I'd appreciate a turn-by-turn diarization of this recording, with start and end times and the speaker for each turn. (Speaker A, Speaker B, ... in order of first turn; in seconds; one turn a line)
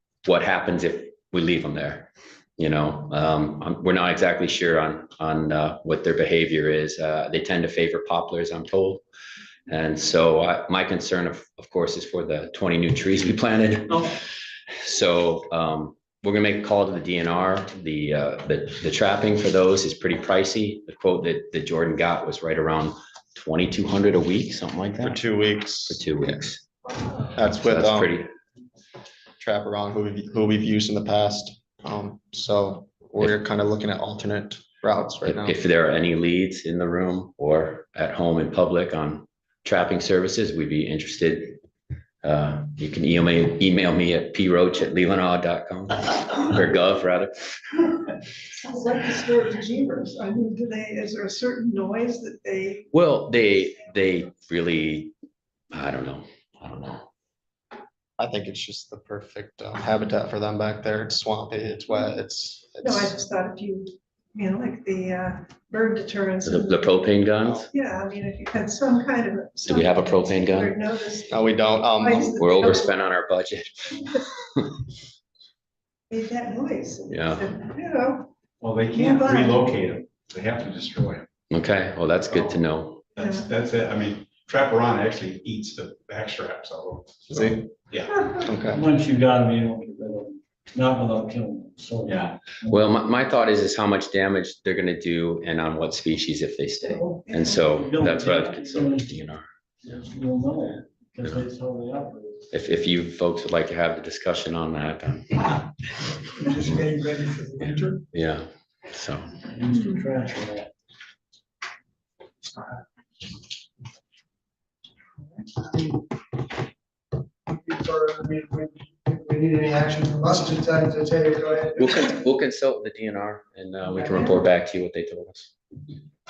Speaker A: 0.2-9.0
Speaker A: 9.7-14.0
Speaker A: 14.8-25.2
Speaker B: 25.0-26.5
Speaker A: 25.9-26.6
Speaker B: 27.3-28.1
Speaker A: 27.4-28.3
Speaker B: 29.4-35.5
Speaker A: 35.2-41.6
Speaker A: 42.2-47.3
Speaker C: 48.5-52.9
Speaker A: 52.9-55.1
Speaker A: 55.7-57.1
Speaker B: 58.2-63.1
Speaker C: 62.8-67.0
Speaker A: 66.4-67.7
Speaker C: 67.7-72.9
Speaker A: 69.7-70.7
Speaker B: 71.3-72.5
Speaker A: 72.3-74.2
Speaker C: 76.1-78.3
Speaker A: 77.1-77.5
Speaker D: 78.6-81.3
Speaker C: 78.9-79.7
Speaker A: 81.5-83.0
Speaker D: 82.3-82.6
Speaker D: 83.1-88.2
Speaker C: 83.2-83.5
Speaker B: 87.3-87.7
Speaker B: 88.4-88.8
Speaker E: 88.6-92.8
Speaker A: 92.7-99.5
Speaker C: 97.0-97.7
Speaker E: 97.7-99.1
Speaker E: 99.8-102.4
Speaker A: 102.5-105.7
Speaker F: 106.4-108.0
Speaker A: 107.6-109.4
Speaker E: 109.5-110.7
Speaker F: 115.5-116.0
Speaker F: 117.5-122.1
Speaker A: 121.8-125.5